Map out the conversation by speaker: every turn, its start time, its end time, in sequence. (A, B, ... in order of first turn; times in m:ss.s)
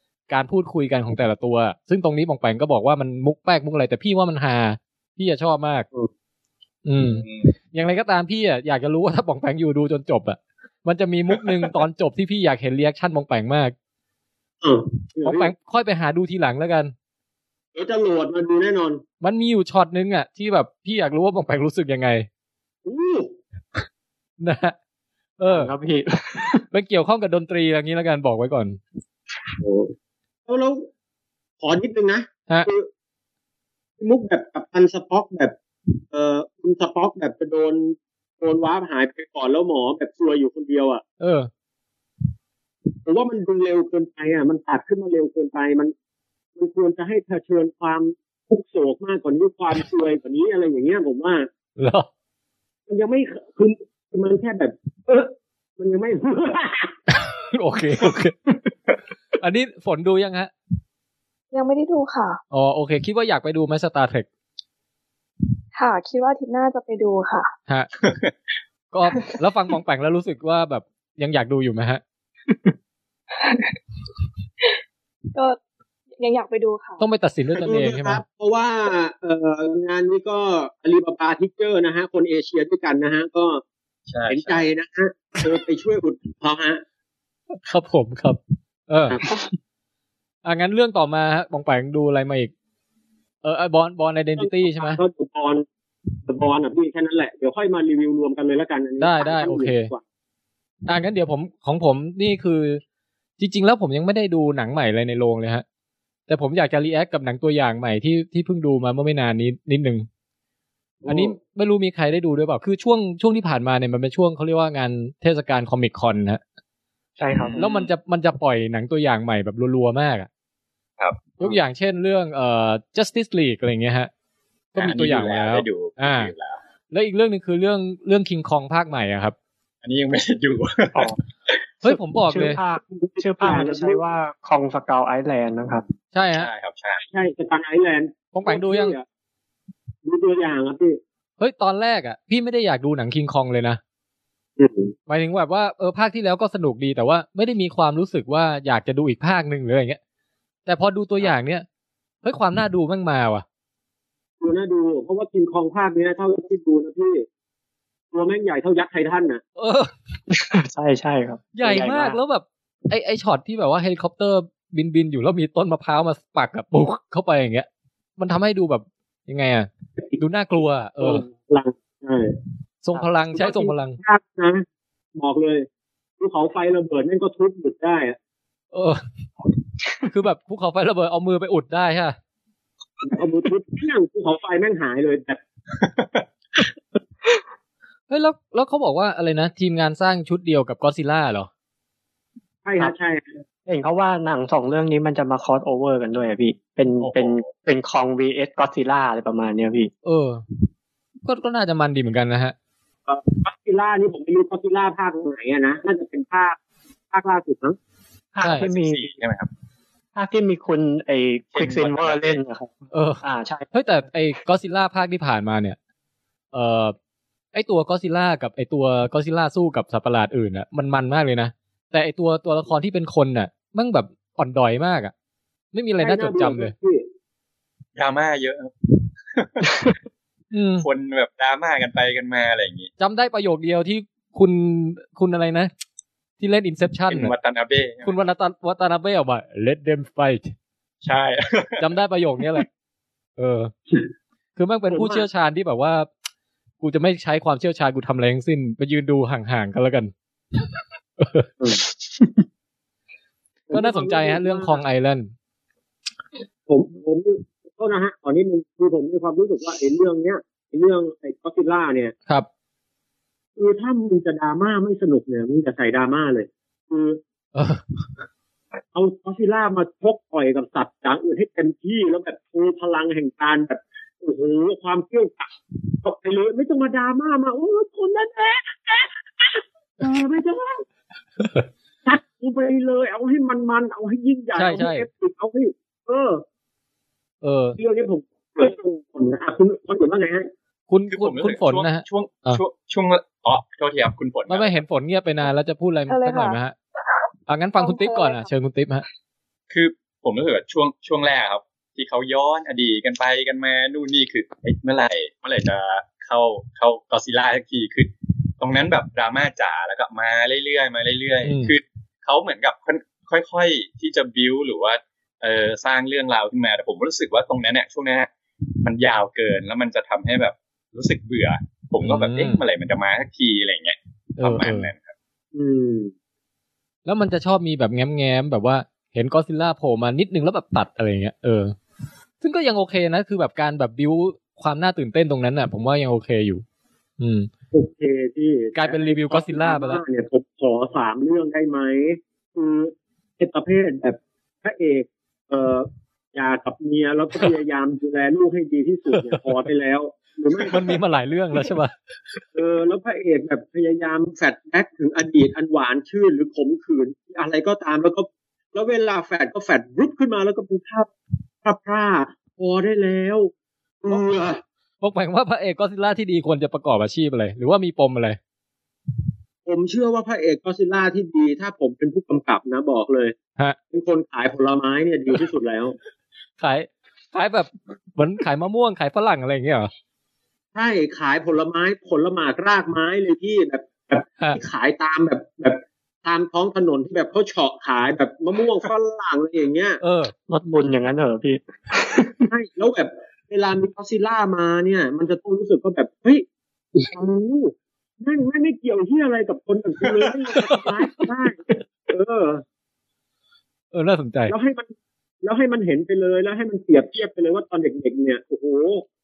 0:00.3-0:05.9 A
0:06.8-0:13.8 A
0:07.0-0:07.5 B
0:14.6-0:15.5 C
0:15.2-0:16.9 A
0:17.8-0:19.0 C
0:19.2-0:22.3 A
0:22.8-0:23.3 C
0:24.4-0:24.8 A
0:25.4-0:25.7 A
0:25.5-0:26.7 D
0:26.7-0:28.8 A
0:29.6-0:29.9 C
0:30.5-0:30.9 C
0:31.6-0:32.9 C
0:34.0-0:35.6 C
0:36.1-0:41.0 C
0:41.2-0:41.5 A
0:43.0-0:45.9 C
0:46.6-0:51.5 C
0:51.8-0:52.1 A
0:52.9-0:57.0 C
0:57.5-0:58.4 A
0:59.4-1:00.5 A
1:01.5-1:02.4 E
1:02.5-1:04.3 A
1:05.7-1:07.5 E
1:08.0-1:08.3 B
1:08.9-1:12.0 A
1:13.4-1:13.8 E
1:16.2-1:17.0 E
1:17.0-1:18.2 A
1:17.6-1:23.6 C
1:24.1-1:24.6 B
1:24.3-1:26.8 C
1:27.6-1:29.2 A
1:30.4-1:32.5 A
1:33.4-1:35.0 A
1:34.4-1:35.6 C
1:36.3-1:40.0 C
1:39.0-1:39.9 A
1:40.9-1:42.8 A
1:43.4-1:45.6 A
1:46.3-1:50.1 A
1:51.0-1:51.4 C
1:51.1-1:56.4 A
1:57.2-1:57.6 D
1:57.3-1:57.7 B
1:57.6-2:00.3 A
2:01.0-2:01.3 B
2:01.4-2:04.1 A
2:04.7-2:06.3 A
2:04.8-2:06.6 B
2:06.9-2:09.4 A
2:09.8-2:11.6 B
2:11.8-2:12.6 A
2:11.8-2:15.8 D
2:13.0-2:14.0 C
2:16.1-2:16.5 A
2:16.4-2:17.0 B
2:17.0-2:19.0 C
2:18.3-2:19.0 A
2:20.0-2:21.0 C
2:21.4-2:23.8 A
2:24.6-2:24.9 C
2:25.1-2:30.0 A
2:30.7-2:31.6 A
2:32.2-2:33.4 A
2:34.4-2:37.2 C
2:38.1-2:39.4 C
2:39.6-2:39.9 A
2:40.3-2:42.2 D
2:41.6-2:51.2 A
2:51.0-2:52.4 C
2:52.8-2:54.0 A
2:52.9-2:54.6 C
2:55.2-2:55.7 C
2:56.2-2:58.2 C
2:58.7-2:59.0 A
3:00.1-3:02.2 A
3:03.1-3:05.4 C
3:05.8-3:06.2 B
3:08.1-3:11.5 A
3:12.6-3:13.3 C
3:13.7-3:19.9 D
3:17.0-3:17.5 B
3:20.0-3:20.4 A
3:21.2-3:22.5 A
3:23.1-3:26.6 C
3:27.1-3:27.8 C
3:28.3-3:29.1 D
3:28.4-3:28.7 A
3:28.4-3:29.5 B
3:30.2-3:33.7 D
3:31.5-3:32.4 B
3:32.9-3:35.8 A
3:36.5-3:37.0 A
3:37.5-3:45.1 A
3:45.7-3:46.7 A
3:46.0-3:47.0 C
3:48.0-3:48.7 B
3:49.3-3:50.0 B
3:50.5-3:50.9 A
3:50.8-3:52.9 B
3:53.0-3:55.7 A
3:56.4-3:57.3 A
3:57.1-3:58.2 B
3:58.0-4:00.5 A
4:01.0-4:01.9 B
4:01.8-4:02.7 A
4:03.4-4:03.7 A
4:04.6-4:06.1 A
4:04.9-4:05.2 C
4:06.8-4:10.1 A
4:11.2-4:11.5 A
4:13.7-4:14.8 C
4:13.7-4:15.3 A
4:16.7-4:22.1 C
4:23.6-4:27.2 C
4:27.6-4:27.8 A
4:28.9-4:35.5 C
4:36.0-4:40.8 C
4:42.0-4:46.4 C
4:44.6-4:45.1 A
4:47.4-4:47.8 A
4:47.8-4:50.5 C
4:50.9-4:52.6 A
4:51.1-4:54.8 B
4:54.5-4:56.7 A
4:56.1-4:56.6 E
4:57.5-4:59.0 A
4:57.8-4:58.5 E
4:59.7-5:18.3 B
5:11.4-5:11.7 A
5:18.8-5:25.1 B
5:22.0-5:22.6 A
5:24.4-5:24.9 A
5:25.5-5:26.1 C
5:27.1-5:31.7 A
5:32.4-5:36.6 A
5:37.2-5:37.5 A
5:37.7-5:50.9 C
5:38.8-5:40.0 A
5:49.1-5:49.6 A
5:50.7-5:51.9 A
5:52.5-6:01.1 C
6:01.6-6:03.5 C
6:04.0-6:04.6 C
6:05.0-6:08.4 A
6:09.6-6:13.4 C
6:13.9-6:16.0 C
6:16.6-6:19.9 A
6:20.8-6:30.0 C
6:30.0-6:30.3 A
6:30.5-6:32.5 D
6:32.5-6:36.4 C
6:37.0-6:42.6 C
6:40.5-6:41.2 A
6:43.9-6:44.6 A
6:44.5-6:44.9 C
6:45.4-6:49.0 C